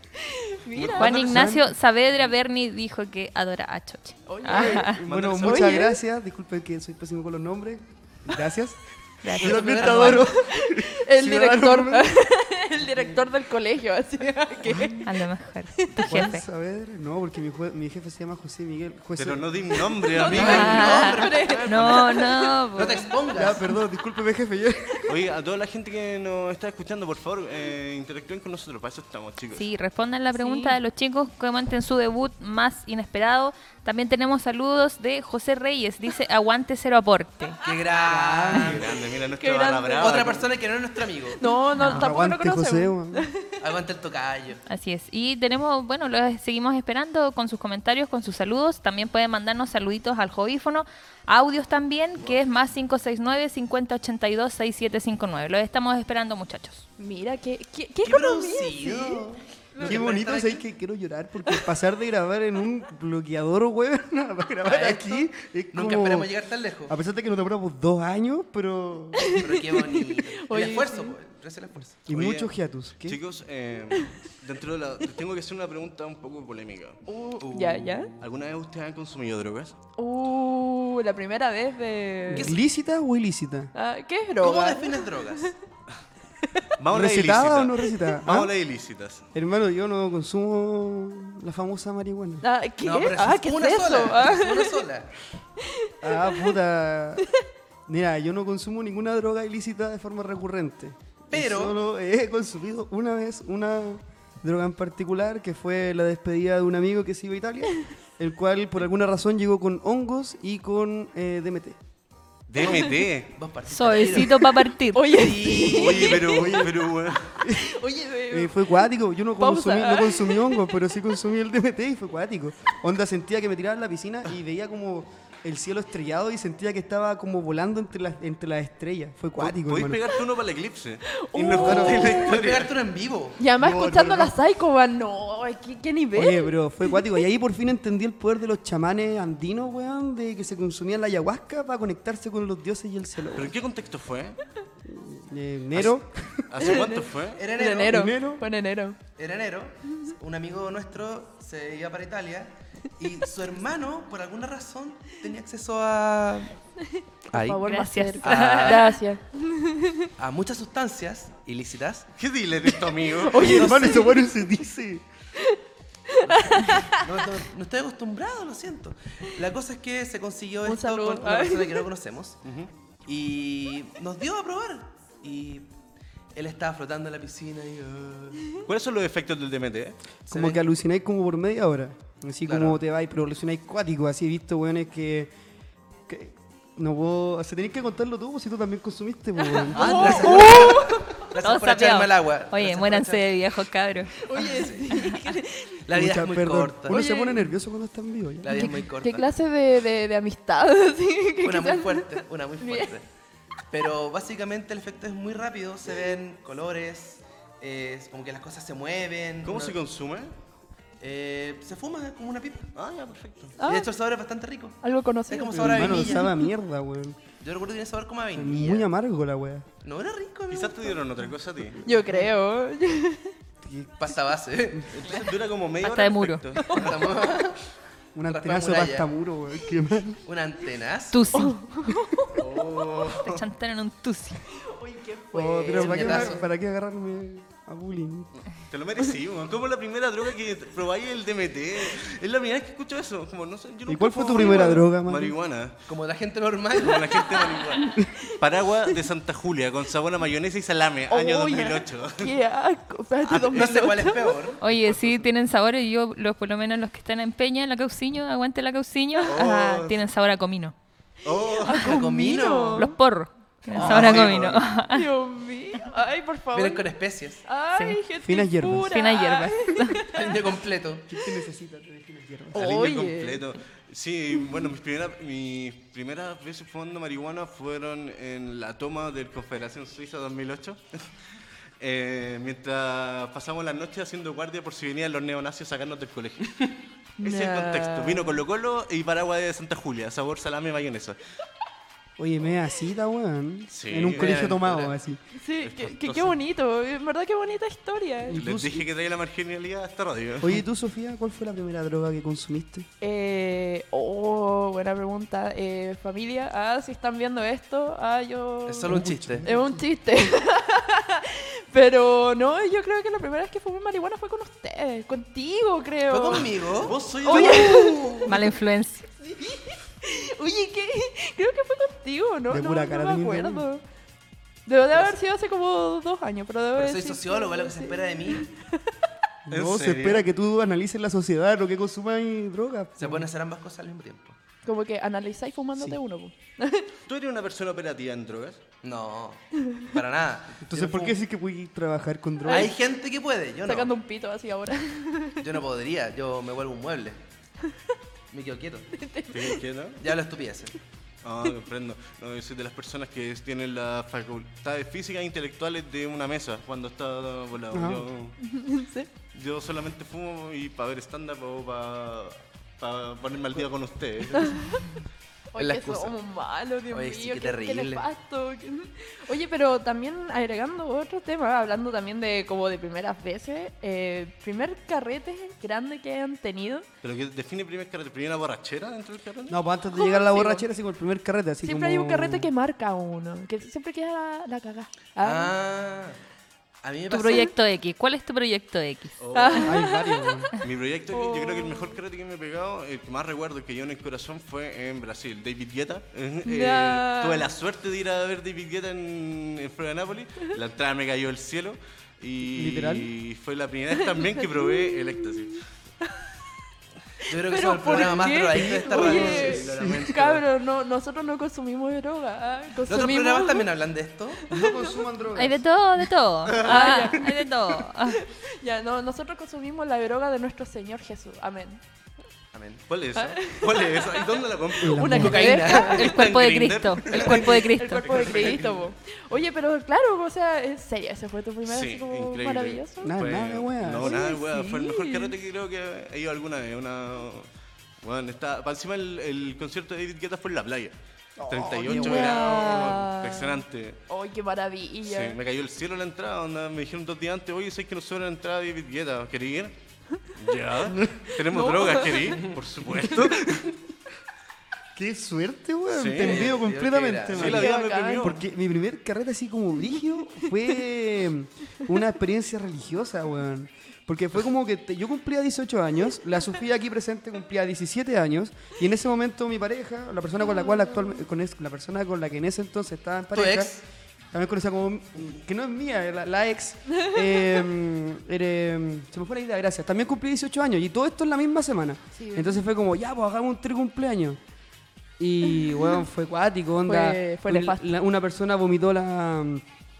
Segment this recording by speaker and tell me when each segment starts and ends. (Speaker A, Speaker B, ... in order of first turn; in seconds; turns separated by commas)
Speaker A: 0.2-1.2, Speaker B: 0.8-1.1, Speaker C: 1.0-1.7, Speaker D: 1.0-5.0, Speaker A: 4.3-6.0, Speaker C: 4.4-12.1, Speaker B: 5.0-5.7, Speaker D: 9.2-10.2, Speaker E: 9.4-10.3, Speaker A: 10.2-15.1, Speaker D: 15.0-16.4, Speaker A: 15.8-16.0, Speaker C: 16.0-19.5, Speaker B: 19.1-21.1, Speaker A: 19.9-22.9, Speaker E: 20.2-22.0, Speaker D: 20.3-23.1, Speaker E: 22.7-23.7, Speaker C: 23.3-25.1, Speaker B: 25.1-29.6, Speaker D: 29.5-37.6, Speaker A: 30.3-30.8, Speaker E: 37.6-39.1, Speaker C: 38.0-38.9, Speaker B: 38.6-40.5, Speaker A: 39.3-40.3, Speaker E: 40.0-41.4, Speaker A: 41.4-43.5, Speaker D: 41.8-42.0, Speaker C: 41.8-43.3, Speaker E: 43.6-44.6, Speaker D: 44.7-56.8, Speaker A: 57.0-60.1, Speaker E: 58.0-60.6, Speaker C: 59.0-66.3, Speaker E: 64.6-67.0, Speaker C: 66.9-69.4, Speaker A: 69.2-71.2, Speaker E: 69.3-72.1, Speaker C: 72.1-73.2, Speaker B: 72.1-72.5, Speaker B: 73.0-77.0, Speaker A: 77.1-78.1, Speaker E: 77.4-78.1, Speaker B: 78.2-79.8, Speaker A: 80.0-82.5, Speaker C: 82.3-83.7, Speaker E: 82.3-82.6, Speaker A: 83.7-85.5, Speaker E: 84.4-85.5, Speaker B: 86.8-89.2, Speaker C: 86.9-88.5, Speaker C: 89.3-92.4, Speaker A: 92.4-94.8, Speaker E: 92.8-95.1, Speaker A: 95.6-96.5, Speaker C: 96.0-97.3, Speaker C: 97.9-111.8, Speaker E: 101.3-101.8, Speaker B: 112.5-113.3, Speaker A: 112.6-113.0, Speaker E: 113.3-114.5, Speaker D: 113.7-115.4, Speaker A: 114.9-116.7, Speaker E: 115.1-116.3, Speaker B: 115.6-117.4, Speaker C: 116.4-116.7, Speaker C: 117.4-117.7, Speaker A: 117.4-120.7, Speaker C: 118.3-130.1, Speaker B: 129.4-132.7, Speaker A: 131.1-132.4, Speaker C: 131.5-132.2, Speaker E: 131.7-133.4, Speaker A: 133.4-137.0, Speaker C: 133.6-134.3, Speaker C: 136.1-143.5, Speaker B: 143.3-144.4, Speaker C: 144.8-146.5, Speaker B: 146.5-147.4, Speaker A: 146.6-149.0, Speaker E: 147.3-148.1, Speaker C: 147.8-148.4, Speaker E: 149.2-156.6, Speaker A: 156.9-160.1, Speaker E: 157.3-157.6, Speaker D: 157.6-158.9, Speaker E: 158.2-158.8, Speaker E: 160.2-162.1, Speaker B: 162.2-163.7, Speaker A: 162.7-164.2, Speaker C: 163.4-165.0, Speaker E: 163.4-164.1, Speaker A: 165.4-167.0, Speaker E: 166.2-172.4, Speaker A: 170.6-171.8, Speaker B: 172.4-172.7, Speaker E: 173.0-175.7, Speaker E: 176.3-178.6, Speaker B: 178.6-180.0, Speaker C: 180.3-185.3, Speaker E: 180.3-180.6, Speaker E: 182.4-182.8, Speaker C: 186.1-190.3, Speaker A: 189.4-191.2, Speaker E: 189.7-193.3, Speaker B: 189.8-190.5, Speaker D: 190.2-194.2, Speaker A: 194.2-195.8, Speaker E: 194.3-195.3, Speaker E: 195.8-197.0, Speaker C: 195.9-198.7, Speaker A: 196.9-197.5, Speaker E: 198.4-199.3, Speaker A: 198.5-202.9, Speaker E: 201.4-203.1, Speaker E: 203.7-209.8, Speaker B: 209.4-210.3, Speaker E: 211.0-212.7, Speaker B: 212.7-213.6, Speaker A: 213.6-213.9, Speaker E: 213.6-216.3, Speaker A: 214.8-216.5, Speaker C: 215.5-217.2, Speaker E: 217.4-218.9, Speaker C: 218.3-219.7, Speaker E: 219.8-221.0, Speaker B: 220.5-221.8, Speaker A: 221.8-223.3, Speaker C: 221.9-222.3, Speaker C: 223.6-224.2, Speaker E: 224.0-225.1, Speaker B: 224.9-227.2, Speaker D: 225.8-226.4, Speaker A: 226.6-226.9, Speaker E: 226.7-227.6, Speaker C: 228.1-230.2, Speaker E: 228.3-229.1, Speaker E: 230.2-231.4, Speaker D: 231.1-232.0, Speaker A: 231.3-232.4, Speaker B: 232.3-233.4, Speaker D: 233.1-234.4, Speaker A: 234.5-236.4, Speaker C: 235.3-238.3, Speaker E: 235.7-236.4, Speaker B: 238.5-245.8, Speaker C: 243.9-245.3, Speaker A: 244.3-244.8, Speaker E: 245.9-247.4, Speaker B: 246.7-252.3, Speaker A: 247.0-248.3, Speaker A: 251.1-254.5, Speaker B: 253.3-253.8, Speaker E: 253.4-254.7, Speaker D: 254.6-260.7, Speaker B: 259.2-260.0, Speaker B: 261.2-261.9, Speaker A: 261.6-262.9, Speaker E: 261.6-262.9, Speaker D: 262.8-265.1, Speaker B: 263.7-264.6, Speaker E: 263.8-264.5, Speaker A: 264.9-266.9, Speaker E: 266.5-267.4, Speaker A: 267.4-270.4, Speaker C: 268.2-268.9, Speaker D: 268.8-270.1, Speaker E: 270.1-271.1, Speaker C: 271.1-272.6, Speaker A: 272.5-273.5, Speaker B: 272.5-281.1, Speaker B: 281.8-286.6, Speaker A: 287.2-288.4, Speaker B: 287.2-291.2, Speaker C: 292.2-295.2, Speaker B: 293.7-294.9, Speaker E: 294.1-294.6, Speaker A: 295.3-298.4, Speaker B: 295.6-296.4, Speaker C: 298.3-298.9, Speaker B: 298.3-300.6, Speaker C: 300.4-302.9, Speaker A: 303.0-316.6, Speaker E: 308.6-309.4, Speaker C: 308.9-309.8, Speaker E: 316.1-318.3, Speaker B: 316.6-318.0, Speaker A: 317.2-318.3, Speaker D: 318.2-319.1, Speaker A: 319.2-323.8, Speaker C: 322.5-323.6, Speaker A: 324.6-328.9, Speaker E: 326.8-328.5, Speaker C: 329.5-333.3, Speaker B: 329.5-330.2, Speaker E: 333.0-334.4, Speaker A: 334.6-336.9, Speaker B: 337.1-338.6, Speaker E: 338.8-341.1, Speaker C: 340.6-342.7, Speaker A: 342.4-342.7, Speaker E: 342.5-343.9, Speaker A: 343.6-345.4, Speaker E: 345.4-347.2, Speaker E: 348.3-348.9, Speaker A: 348.9-349.6, Speaker B: 349.3-350.0, Speaker E: 350.0-350.8, Speaker B: 351.2-358.4, Speaker C: 357.7-358.0, Speaker A: 358.4-359.1, Speaker B: 359.3-364.8, Speaker A: 364.4-364.9, Speaker A: 365.5-376.9, Speaker E: 365.6-366.2, Speaker E: 366.9-368.1, Speaker B: 377.0-379.6, Speaker C: 379.5-382.5, Speaker A: 379.9-380.6, Speaker A: 381.6-385.5, Speaker E: 385.2-386.2, Speaker E: 386.8-387.5, Speaker D: 387.1-389.2, Speaker B: 389.2-389.8, Speaker A: 389.3-390.4, Speaker C: 389.6-390.5, Speaker B: 390.6-405.6, Speaker A: 391.1-392.0, Speaker A: 396.4-397.5, Speaker C: 402.5-403.1, Speaker A: 404.0-405.2, Speaker A: 406.0-406.3, Speaker A: 407.2-413.7, Speaker E: 407.3-409.9, Speaker C: 408.5-410.0, Speaker B: 408.9-410.4, Speaker E: 412.9-414.4, Speaker A: 414.4-415.0, Speaker C: 414.5-415.6, Speaker D: 415.3-418.2, Speaker B: 416.5-416.9, Speaker A: 416.6-421.8, Speaker E: 422.5-422.8, Speaker B: 422.9-428.7, Speaker A: 423.1-426.2, Speaker C: 424.8-425.6, Speaker E: 425.1-426.2, Speaker D: 425.3-428.1, Speaker A: 427.1-433.1, Speaker E: 428.1-428.9, Speaker B: 431.6-437.5, Speaker C: 433.0-434.2, Speaker A: 434.0-435.3, Speaker B: 438.0-440.9, Speaker C: 441.4-442.6, Speaker B: 441.5-444.0, Speaker A: 441.8-445.4, Speaker B: 445.0-449.7, Speaker B: 450.3-453.7, Speaker A: 451.3-452.4, Speaker C: 454.9-473.8, Speaker B: 455.9-456.6, Speaker E: 456.2-457.7, Speaker B: 457.3-458.4, Speaker A: 457.4-458.3, Speaker A: 470.4-471.2, Speaker E: 473.3-473.8, Speaker C: 474.3-484.4, Speaker A: 476.9-477.2, Speaker A: 482.1-482.6, Speaker C: 485.2-489.6, Speaker A: 485.4-486.0, Speaker A: 486.9-487.9